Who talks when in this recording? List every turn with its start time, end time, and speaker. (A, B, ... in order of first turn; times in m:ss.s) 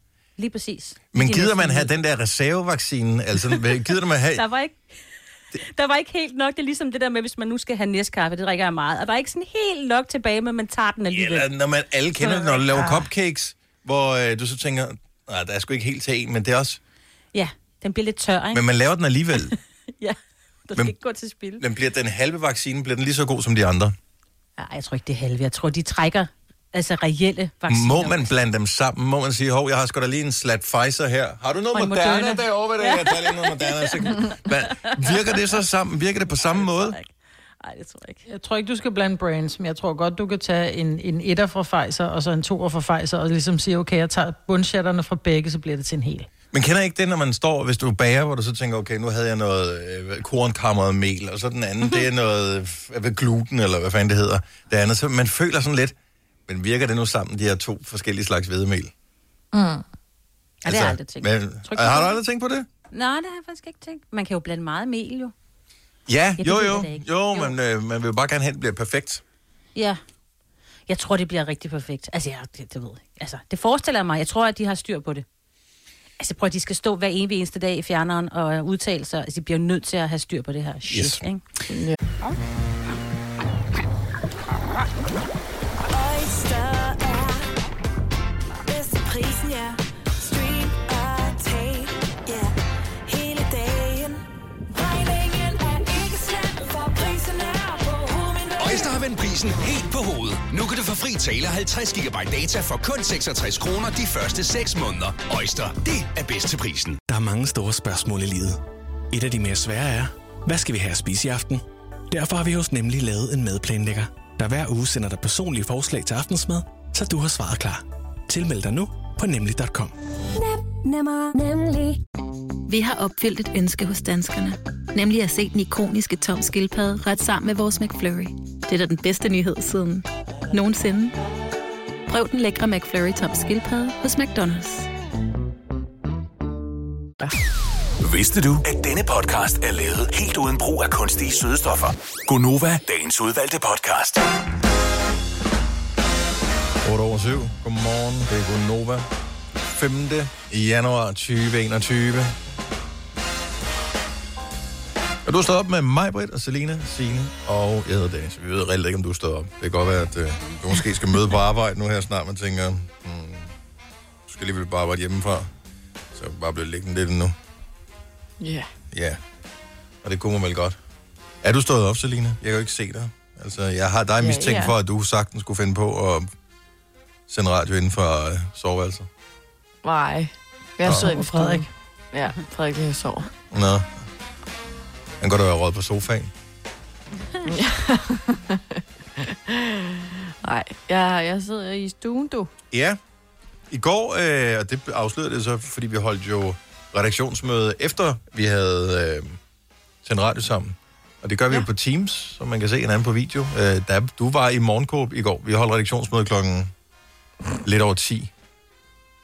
0:00.4-0:01.9 A
0:01.1-0:04.4 B
0:03.5-0:05.0 A
0:05.5-0:11.5 A
0:11.1-0:16.8 B
0:12.2-0:13.1 A
0:17.3-0:18.6 A
0:18.5-0:19.6 B
0:19.4-0:21.6 A
0:21.6-0:23.9 B
0:24.6-0:28.3 A
0:27.7-0:37.0 B
0:31.7-0:35.1 A
0:36.3-0:37.1 A
0:37.6-0:38.2 A
0:38.3-0:46.3 C
0:46.5-0:55.9 B
0:56.5-0:58.9 B
0:59.5-0:59.8 C
1:00.6-1:02.2 A
1:00.6-1:02.7 B
1:02.9-1:05.3 A
1:06.1-1:09.2 B
1:06.4-1:07.5 A
1:09.7-1:10.0 A
1:10.9-1:15.2 A
1:16.2-1:21.4 A
1:20.9-1:21.2 B
1:21.7-1:22.0 D
1:25.9-1:27.5 E
1:28.6-1:32.5 E
1:33.0-1:39.0 E
1:38.6-1:47.0 F
1:47.0-1:48.6 G
1:49.1-1:59.9 G
2:00.4-2:02.0 E
2:02.7-2:11.1 H
2:12.1-2:14.9 H
2:18.0-2:24.2 I
2:26.8-2:29.1 B
2:29.7-2:32.3 B
2:35.2-2:43.5 B
2:44.3-2:45.5 B
2:46.1-2:47.4 B
2:48.4-2:48.7 D
2:48.9-2:49.2 B
2:50.0-2:50.8 B
2:51.4-2:56.3 B
2:54.2-2:54.7 D
2:57.3-2:59.1 B
2:59.8-3:03.3 D
3:00.8-3:01.7 C
3:03.5-3:03.9 B
3:05.2-3:06.3 B
3:07.4-3:12.5 D
3:12.7-3:13.0 B
3:13.7-3:19.4 B
3:20.0-3:26.7 B
3:27.6-3:28.3 B